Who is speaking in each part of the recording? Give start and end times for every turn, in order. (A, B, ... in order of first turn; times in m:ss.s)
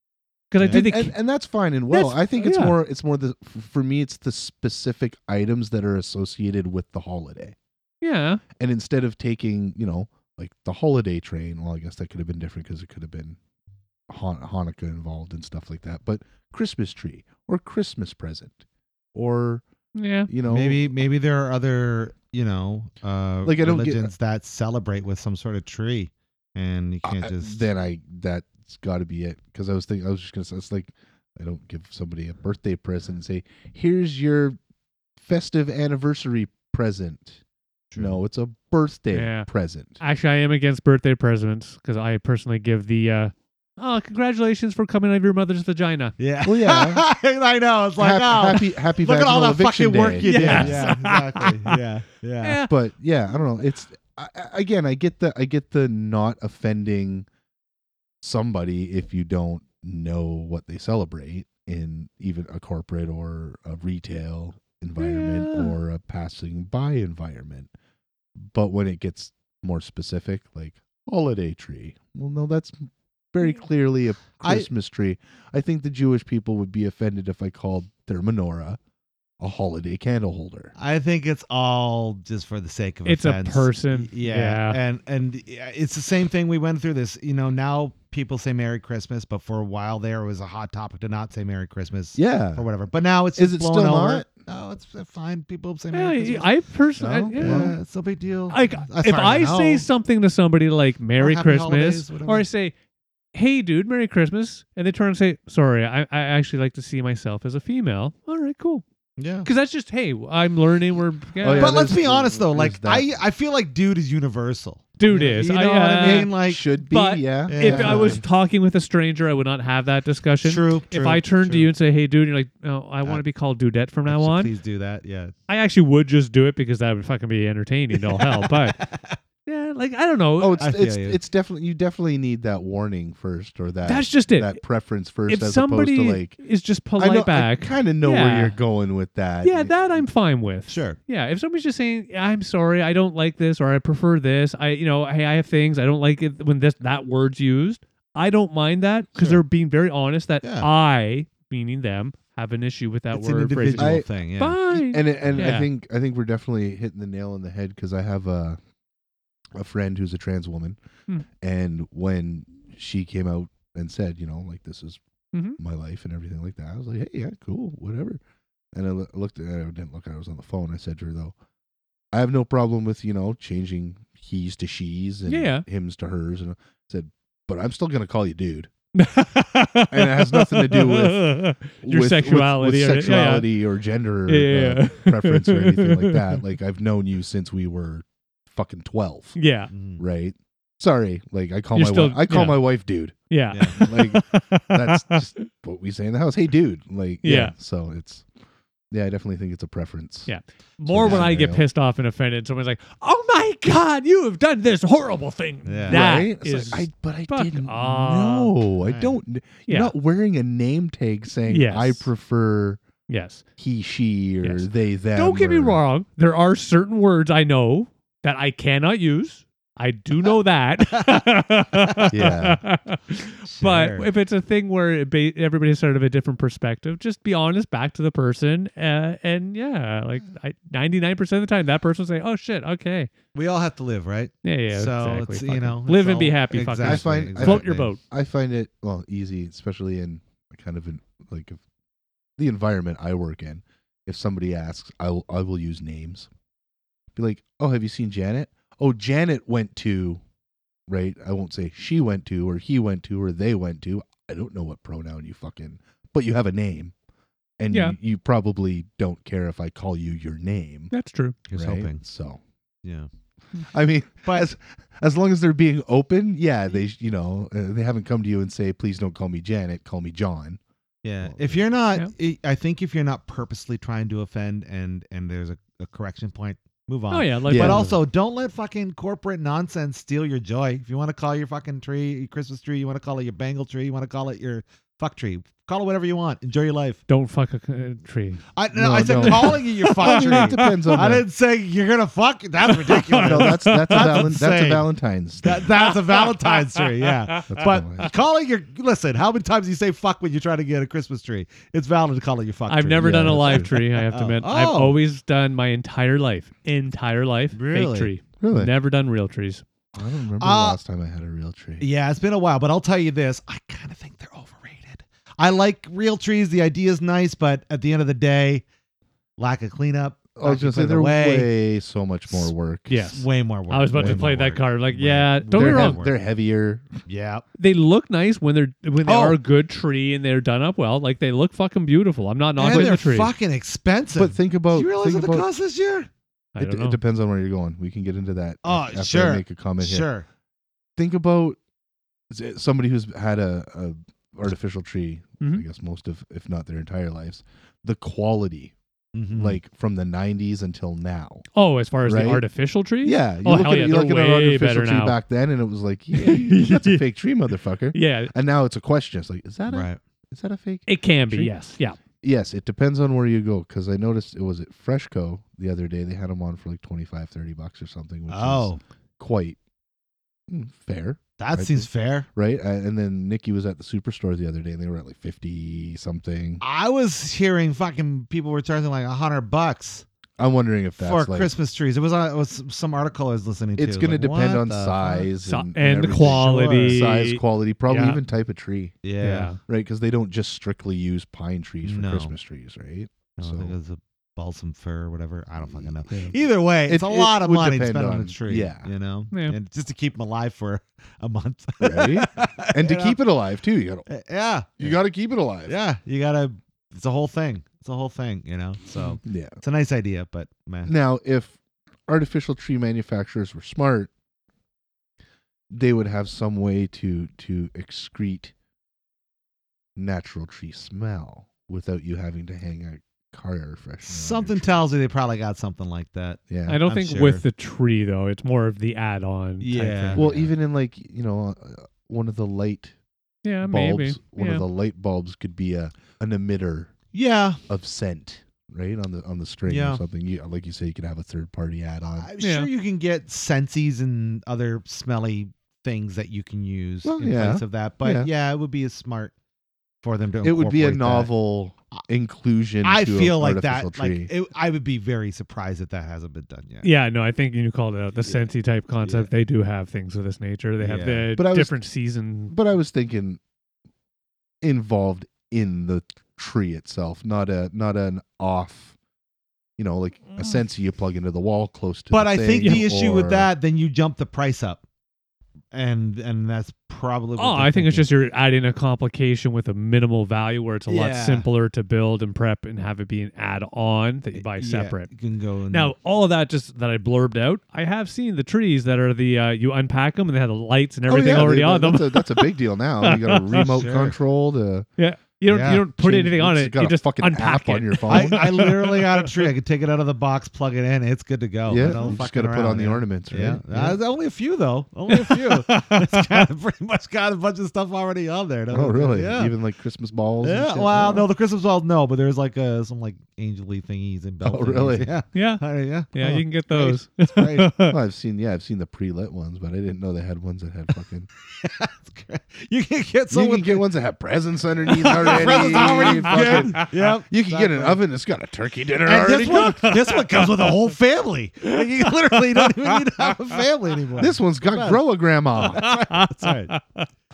0:00.5-0:01.1 A
0:00.6-0:00.9 B
0:00.7-0:07.6 C
0:01.9-0:02.8 A
0:08.0-0:08.4 A
0:08.6-0:13.4 C
0:14.1-0:18.6 C
0:19.1-0:19.6 C
0:20.0-0:20.3 A
0:20.3-0:20.8 C
0:20.4-0:27.7 B
0:23.4-0:24.1 C
0:27.0-0:34.6 C
0:35.2-0:37.4 C
0:37.9-0:38.2 B
0:38.0-0:40.0 C
0:39.1-0:39.5 A
0:40.0-0:46.2 A
0:46.2-0:52.6 B
0:46.4-0:47.0 C
0:48.0-0:51.0 C
0:50.2-0:51.8 A
0:52.4-0:52.7 A
0:52.7-0:57.3 C
0:58.2-1:07.7 C
1:05.0-1:05.8 A
1:08.4-1:18.8 C
1:14.4-1:14.7 B
1:19.4-1:20.7 C
1:20.8-1:36.5 B
1:23.0-1:24.8 A
1:32.2-1:32.7 C
1:33.4-1:34.3 C
1:35.9-1:37.8 A
1:37.0-1:37.8 C
1:37.4-1:39.8 B
1:38.5-1:42.7 A
1:41.2-1:42.5 B
1:43.3-1:48.8 A
1:49.2-1:49.5 B
1:49.4-1:51.8 A
1:51.4-1:53.2 C
1:51.6-1:56.6 B
1:55.0-2:04.5 A
1:56.1-1:58.2 C
1:57.5-1:58.2 B
2:00.4-2:01.2 B
2:00.9-2:01.7 C
2:04.1-2:05.3 B
2:05.5-2:08.8 A
2:07.9-2:09.2 B
2:09.5-2:10.6 A
2:10.4-2:16.4 C
2:10.6-2:11.2 B
2:13.8-2:14.6 A
2:15.3-2:18.6 A
2:17.0-2:20.0 C
2:19.4-2:35.7 A
2:20.7-2:21.0 B
2:29.2-2:29.4 B
2:30.4-2:30.7 B
2:33.1-2:34.6 B
2:33.8-2:34.1 C
2:34.7-2:38.6 C
2:35.2-2:35.6 B
2:39.6-2:40.8 C
2:41.4-2:45.0 C
2:45.3-2:45.6 A
2:45.6-2:48.2 C
2:48.7-2:51.4 C
2:52.1-2:58.7 C
2:55.3-2:55.6 A
2:59.0-3:03.5 A
2:59.9-3:09.4 C
3:04.3-3:06.4 A
3:09.4-3:09.7 A
3:09.7-3:10.0 B
3:10.0-3:13.2 C
3:11.7-3:12.7 A
3:13.3-3:15.4 A
3:13.5-3:13.8 B
3:13.7-3:18.3 C
3:17.2-3:17.5 A
3:18.9-3:20.3 C
3:20.3-3:28.5 A
3:20.9-3:21.6 C
3:21.0-3:21.3 B
3:25.6-3:26.0 B
3:25.9-3:32.8 C
3:28.9-3:29.2 B
3:29.7-3:29.9 A
3:31.5-3:32.1 A
3:33.1-3:33.4 A
3:33.6-3:35.8 C
3:34.4-3:53.1 A
3:40.9-3:42.1 B
3:42.1-3:42.6 C
3:43.4-3:44.1 B
3:53.4-3:57.9 B
3:54.4-3:58.0 A
3:56.8-4:01.6 C
4:02.4-4:06.3 C
4:07.2-4:10.2 C
4:10.9-4:16.9 C
4:17.6-4:20.9 C
4:20.9-4:21.4 A
4:21.5-4:22.0 B
4:21.6-4:22.4 C
4:22.8-4:23.1 B
4:23.7-4:30.6 C
4:31.0-4:47.0 B
4:31.2-4:31.6 C
4:37.1-4:38.0 A
4:37.5-4:37.8 C
4:47.1-4:48.4 A
4:48.6-4:54.9 B
4:48.7-4:51.2 C
4:49.1-4:50.9 A
4:52.7-4:54.3 A
4:53.2-4:55.6 C
4:55.4-5:05.0 B
4:55.7-4:57.4 A
4:57.5-4:58.1 C
5:02.7-5:09.6 A
5:03.0-5:03.7 C
5:07.5-5:08.1 B
5:08.4-5:08.7 C
5:10.0-5:11.8 C
5:10.4-5:10.8 B
5:11.8-5:18.6 B
5:19.4-5:21.5 B
5:20.4-5:23.0 C
5:22.9-5:26.0 A
5:23.0-5:26.2 B
5:24.0-5:24.3 C
5:25.5-5:27.0 C
5:27.1-5:27.4 B
5:27.6-5:33.3 A
5:29.0-5:29.4 B
5:32.6-5:36.1 B
5:32.7-5:33.0 C
5:34.2-5:35.5 C
5:36.6-5:37.0 A
5:36.6-5:40.1 C
5:38.6-5:40.3 B
5:41.0-5:41.6 C
5:42.3-5:48.7 C
5:49.1-5:49.6 B
5:49.3-5:51.4 C
5:51.6-5:55.2 A
5:52.0-5:52.4 C
5:53.0-6:01.5 C
5:56.1-5:57.0 A
5:57.9-5:58.3 A
5:59.7-6:00.0 B
6:00.9-6:02.0 A
6:02.2-6:09.6 C
6:08.3-6:08.8 B
6:10.5-6:16.6 C
6:11.4-6:12.3 B
6:16.6-6:20.1 B
6:20.4-6:21.5 C
6:21.0-6:25.3 B
6:23.8-6:29.0 C
6:25.4-6:28.2 A
6:26.1-6:27.0 B
6:29.0-6:29.6 B
6:29.2-6:29.6 A
6:29.7-6:33.8 C
6:31.8-6:32.4 B
6:33.4-6:43.2 B
6:35.7-6:36.3 C
6:36.9-6:38.9 C
6:41.8-6:44.1 C
6:44.1-6:45.0 B
6:44.8-6:45.8 C
6:45.7-6:50.9 B
6:49.2-6:49.6 C
6:50.9-6:54.1 C
6:55.7-6:58.5 C
7:00.0-7:04.8 C
7:04.1-7:07.4 B
7:06.5-7:06.8 C
7:06.7-7:10.3 A
7:09.6-7:10.5 B
7:10.2-7:13.0 C
7:13.4-7:14.6 A
7:13.6-7:16.9 C
7:17.1-7:17.6 B
7:17.7-7:22.3 C
7:19.7-7:20.0 B
7:22.2-7:29.3 B
7:22.4-7:22.7 A
7:27.0-7:28.3 C
7:30.0-7:31.3 B
7:30.4-7:34.3 C
7:32.8-7:36.9 B
7:36.8-7:42.6 A
7:39.0-7:39.3 B
7:40.8-7:41.3 B
7:41.4-7:41.7 C
7:42.5-7:43.4 C
7:44.6-7:49.0 C
7:49.8-7:53.5 C
7:52.1-7:54.8 B
7:52.6-7:52.8 A
7:55.7-7:58.1 B
7:57.4-8:05.1 A
8:00.9-8:01.5 B
8:04.3-8:05.9 B
8:05.7-8:13.9 A
8:11.1-8:14.9 C
8:13.5-8:14.2 B
8:15.0-8:19.5 A
8:15.5-8:15.9 B
8:15.6-8:18.7 C
8:18.1-8:29.6 B
8:21.7-8:24.0 C
8:21.8-8:22.2 A
8:25.1-8:26.4 A
8:28.7-8:31.3 C
8:30.4-8:37.7 B
8:34.4-8:35.1 C
8:35.3-8:38.0 A
8:37.9-8:41.3 C
8:41.4-8:43.9 B
8:43.3-8:49.9 C
8:44.9-8:48.0 B
8:45.1-8:46.9 A
8:49.0-8:56.8 B
8:49.2-8:50.8 A
8:51.7-8:53.4 A
8:54.2-8:55.9 C
8:55.6-8:57.1 A